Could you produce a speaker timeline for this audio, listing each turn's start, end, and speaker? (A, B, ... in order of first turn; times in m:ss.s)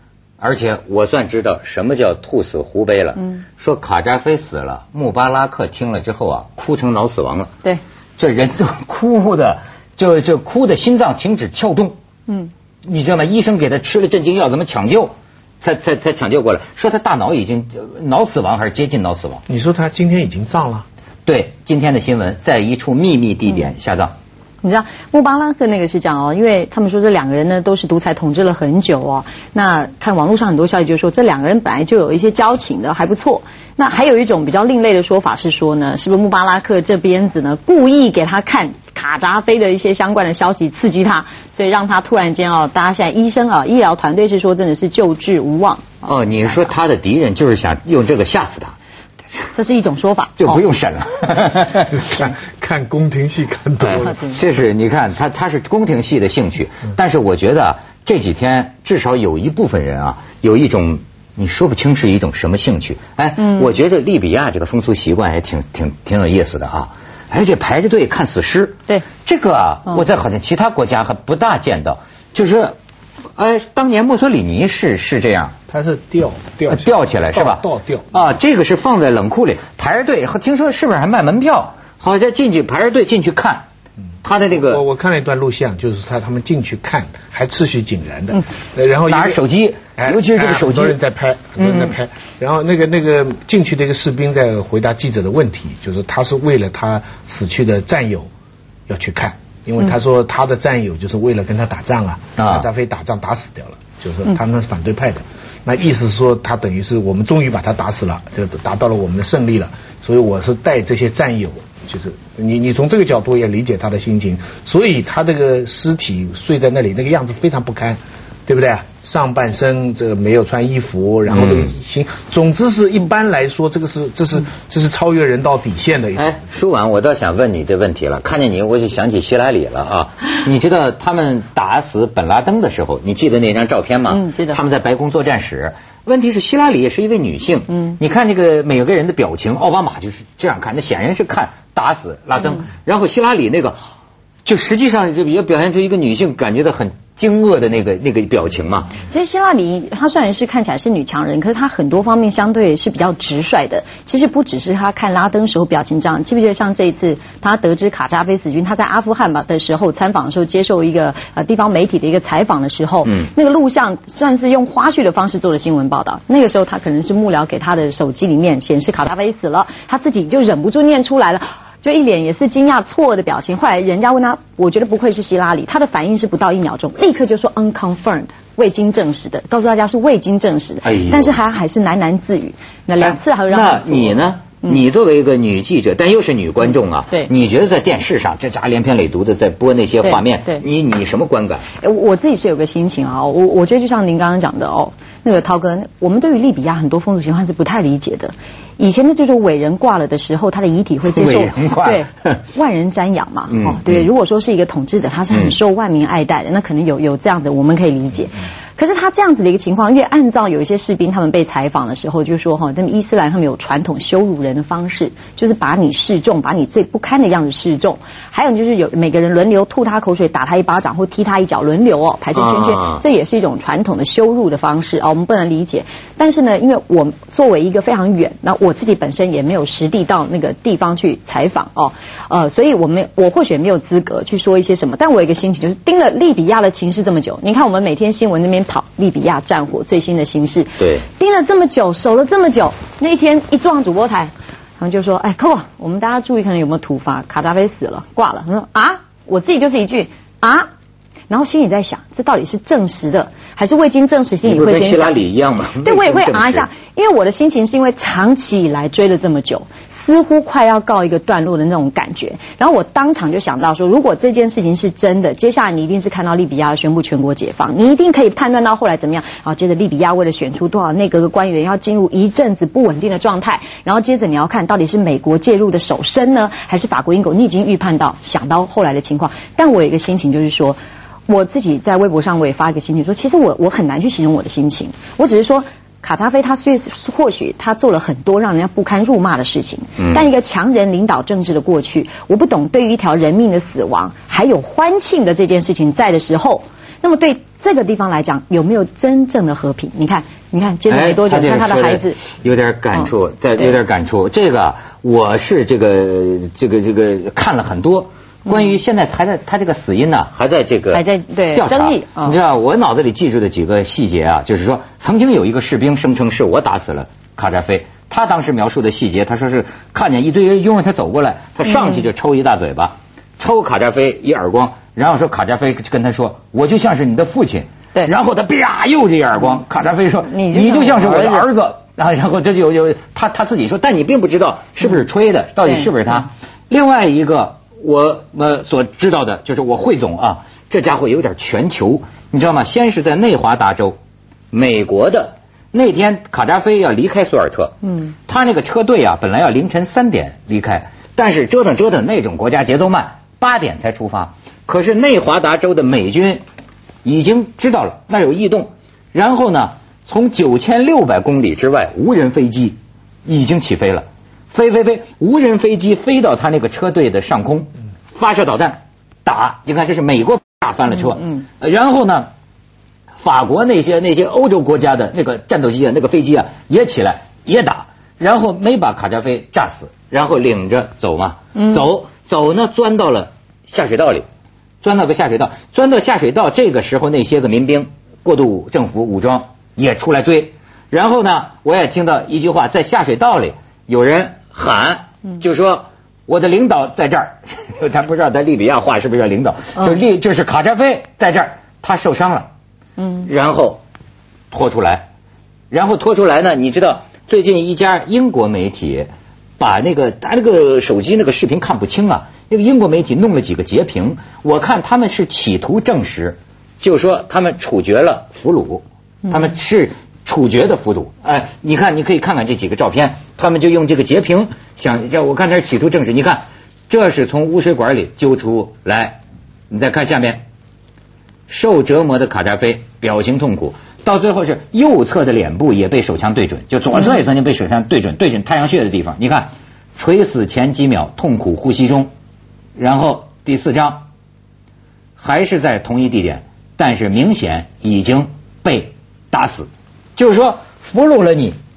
0:00.4-0:07.5 A
0:08.2-0:12.0 A
0:12.9-0:19.4 A
0:19.5-0:20.8 B
0:21.3-0:24.1 A
0:24.6-0:46.1 C
0:46.0-0:48.8 A
0:49.5-0:50.6 C
0:50.4-0:52.1 A
0:51.9-0:54.2 B
0:53.8-1:12.8 A
1:13.4-1:15.6 A
1:15.7-1:18.1 B
1:16.7-1:23.7 A
1:24.2-1:24.8 A
1:24.5-1:29.4 B
1:29.1-1:31.0 A
1:30.0-1:38.3 B
1:31.6-1:31.9 A
1:38.9-2:06.4 B
1:42.4-1:42.7 A
2:01.3-2:01.7 A
2:06.2-2:23.8 A
2:14.1-2:14.6 C
2:24.4-2:29.0 A
2:29.1-3:04.8 C
3:00.8-3:01.4 A
3:03.0-3:11.7 A
3:10.0-3:10.6 C
3:11.8-4:10.7 C
3:21.1-3:22.4 A
3:23.5-3:24.1 A
3:42.3-3:43.0 A
4:00.8-4:01.1 A
4:11.3-4:15.2 C
4:14.4-4:16.7 A
4:15.8-5:02.2 C
4:50.0-4:50.3 A
5:00.9-5:44.0 A
5:03.0-5:03.7 C
5:10.9-5:12.4 C
5:21.7-5:22.0 C
5:30.3-5:31.5 C
5:35.7-5:35.9 C
5:44.5-5:56.4 A
5:57.0-6:12.3 A
6:13.2-6:24.3 A
6:21.6-6:21.8 C
6:24.8-6:42.5 A
6:43.0-6:43.3 C
6:43.2-6:43.8 A
6:44.5-6:45.1 A
6:45.7-7:10.4 A
7:11.5-7:22.1 A
7:22.8-7:24.0 A
7:25.2-7:31.6 A